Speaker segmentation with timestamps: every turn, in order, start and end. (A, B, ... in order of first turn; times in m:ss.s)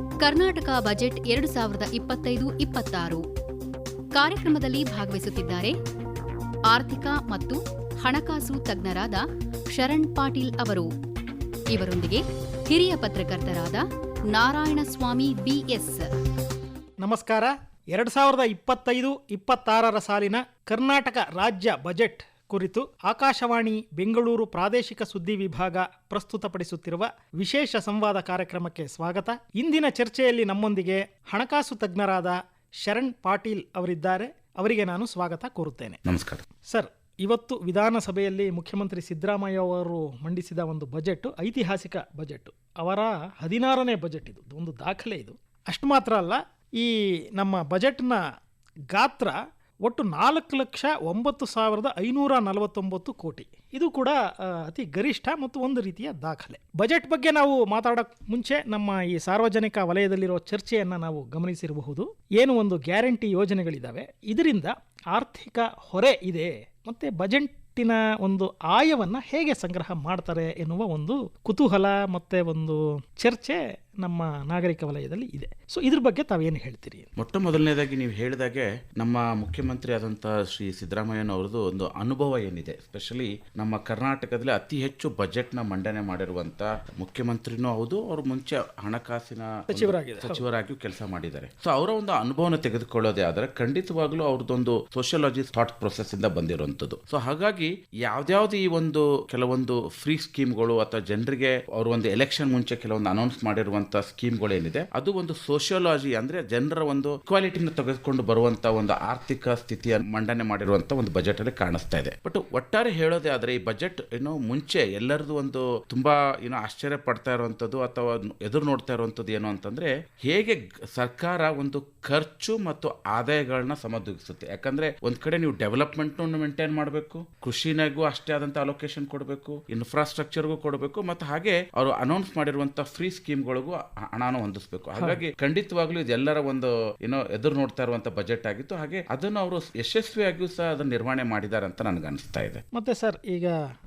0:00.2-0:03.2 A
0:04.2-0:05.8 A
0:06.7-0:09.2 A
0:09.7-0:10.9 A
0:11.7-0:16.1 A
0:17.0-0:36.0 B
0:36.1-0:36.5 C
0:36.7-0:48.2 B
0:48.9-1:17.1 B
1:17.2-2:22.6 C
1:29.7-1:30.4 B
2:22.7-2:23.6 B